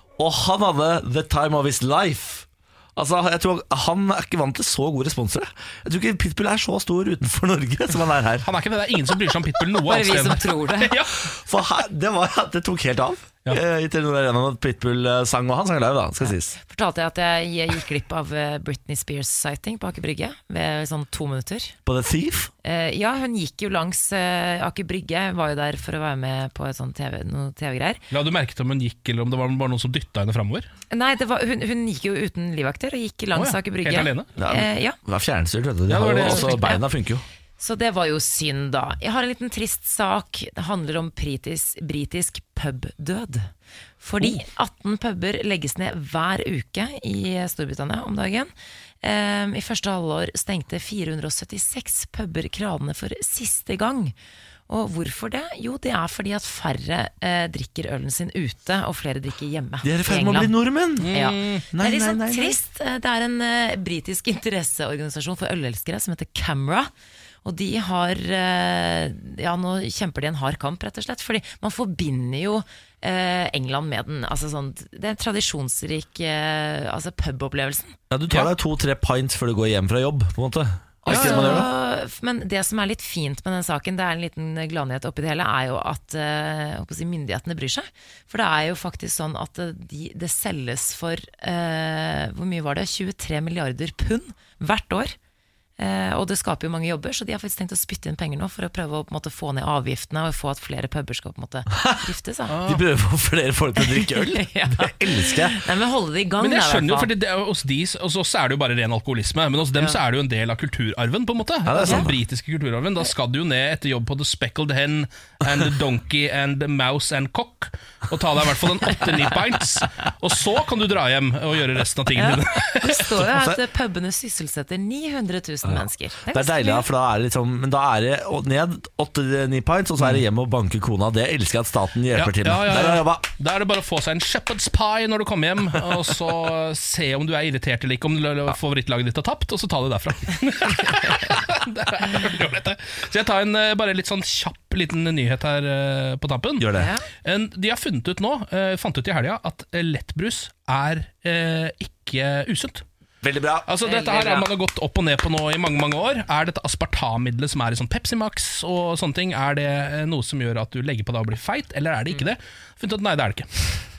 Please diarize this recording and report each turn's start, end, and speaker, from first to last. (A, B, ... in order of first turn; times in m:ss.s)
0:00.2-0:08.5 A
0:08.4-0:11.2 B
0:09.8-0:11.0 C
0:11.2-0:16.6 A
0:16.2-0:21.7 C
0:21.8-0:22.5 A
0:22.6-0:28.0 C
0:28.1-0:30.7 B
0:30.9-0:35.0 C
0:33.3-0:34.3 B
0:34.4-0:37.2 A
0:35.9-0:36.6 B
0:36.2-0:36.8 C
0:37.6-0:43.5 C
0:44.0-0:48.5 C
0:49.0-0:54.1 C
0:54.7-1:00.5 C
0:59.8-1:01.2 A
1:01.0-1:01.6 B
1:01.1-1:06.9 C
1:01.7-1:02.6 A
1:07.4-1:18.0 C
1:18.1-1:21.7 A
1:21.0-1:35.2 C
1:21.1-1:21.7 B
1:35.8-1:42.6 C
1:41.7-1:42.0 A
1:42.5-1:42.8 B
1:42.6-1:45.6 A
1:43.8-1:47.1 C
1:46.4-2:03.2 B
1:51.6-1:52.2 A
2:02.1-2:06.9 C
2:05.6-2:13.3 A
2:12.1-2:26.7 B
2:26.6-2:26.9 A
2:26.7-2:27.0 C
2:27.2-2:32.8 B
2:33.2-2:33.7 A
2:33.7-2:43.5 B
2:33.8-2:34.5 C